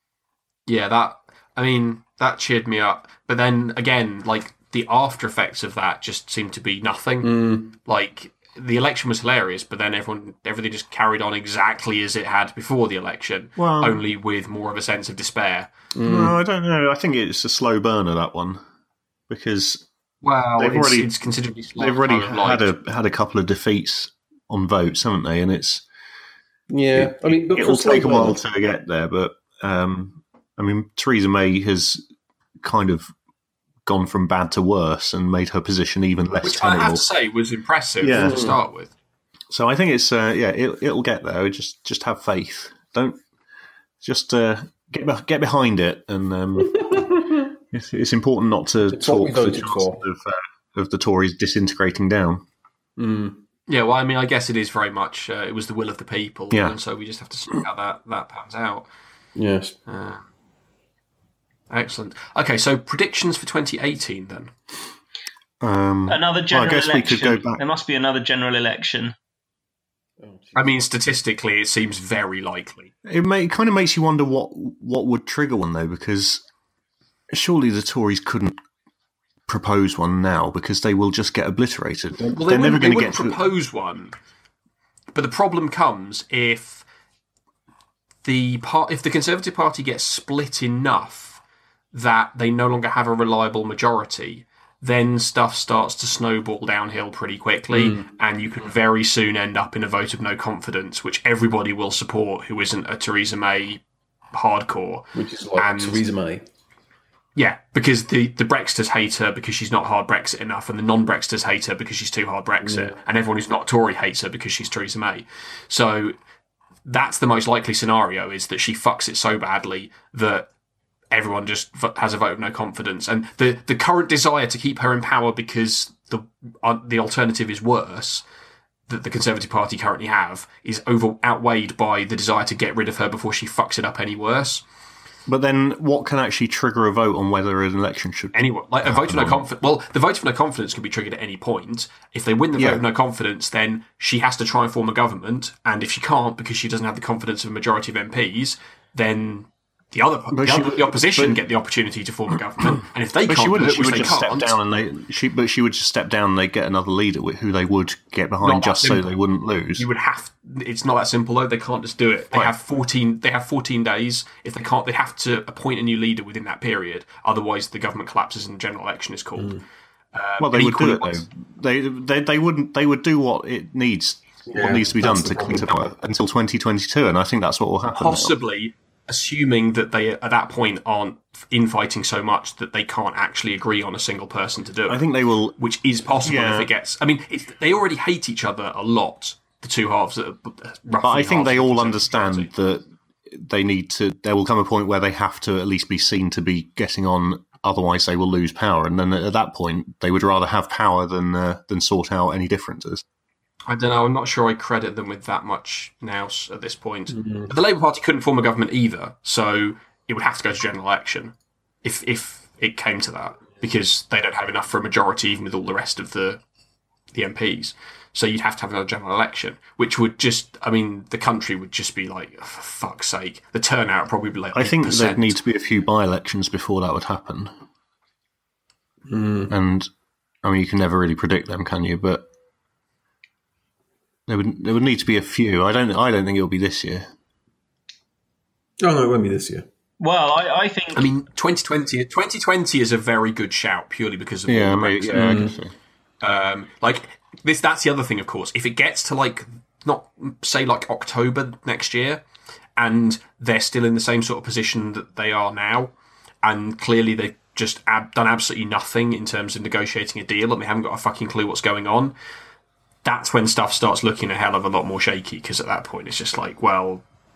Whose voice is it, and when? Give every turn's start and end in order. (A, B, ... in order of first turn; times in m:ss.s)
0:00.7-0:15.7 A
0:07.2-0:07.7 B
0:13.6-0:14.0 C
0:15.9-0:16.4 B
0:16.0-0:18.6 C
0:19.3-0:19.9 C
0:20.2-0:22.7 A
0:20.6-0:21.1 C
0:21.8-0:25.8 C
0:26.7-0:28.4 B
0:26.9-0:32.0 C
0:32.6-0:33.1 C
0:33.8-0:37.0 C
0:36.4-0:38.9 A
0:38.0-0:38.5 C
0:38.1-0:38.6 B
0:39.5-0:43.2 C
0:44.0-0:52.4 C
0:46.6-0:47.4 B
0:48.9-0:50.0 B
0:53.0-0:53.4 B
0:53.7-0:58.9 A
0:56.5-0:56.8 C
0:59.4-0:59.8 B
0:59.9-1:00.2 A
1:01.7-1:04.5 A
1:05.6-1:07.6 C
1:06.1-1:09.1 D
1:10.2-1:10.7 B
1:10.6-1:12.9 A
1:13.0-1:16.4 C
1:17.3-1:18.6 C
1:19.5-1:23.4 C
1:22.3-1:24.2 A
1:25.1-1:26.8 A
1:28.2-1:31.4 A
1:31.9-1:43.8 A
1:37.7-1:38.1 B
1:44.3-1:46.0 A
1:45.1-1:46.4 B
1:47.4-1:56.2 A
1:52.6-1:53.0 B
1:56.8-2:00.5 A
2:01.1-2:08.2 A
2:08.9-2:14.6 A
2:15.3-2:19.4 C
2:18.3-2:34.6 A
2:22.6-2:22.8 C
2:30.3-2:31.4 C
2:33.3-2:39.9 C
2:38.4-2:39.1 A
2:39.8-2:49.6 A
2:50.1-2:51.2 A
2:50.4-2:58.4 C
2:54.5-2:55.9 B
2:58.0-3:05.0 A
3:04.9-3:05.6 C
3:05.6-3:12.5 A
3:06.2-3:06.7 C
3:11.0-3:23.0 C
3:23.7-3:36.4 A
3:27.1-3:27.5 B
3:37.1-3:45.4 A
3:44.5-3:47.5 C
3:49.1-3:49.5 B
3:49.5-3:49.9 C
3:50.4-3:52.3 C
3:54.3-3:57.1 C
3:58.8-3:59.7 B
4:00.0-4:01.1 D
4:01.0-4:05.5 A
4:04.5-4:05.8 C
4:05.1-4:05.6 B
4:06.2-4:12.2 A
4:12.8-4:22.2 A
4:23.0-4:27.0 A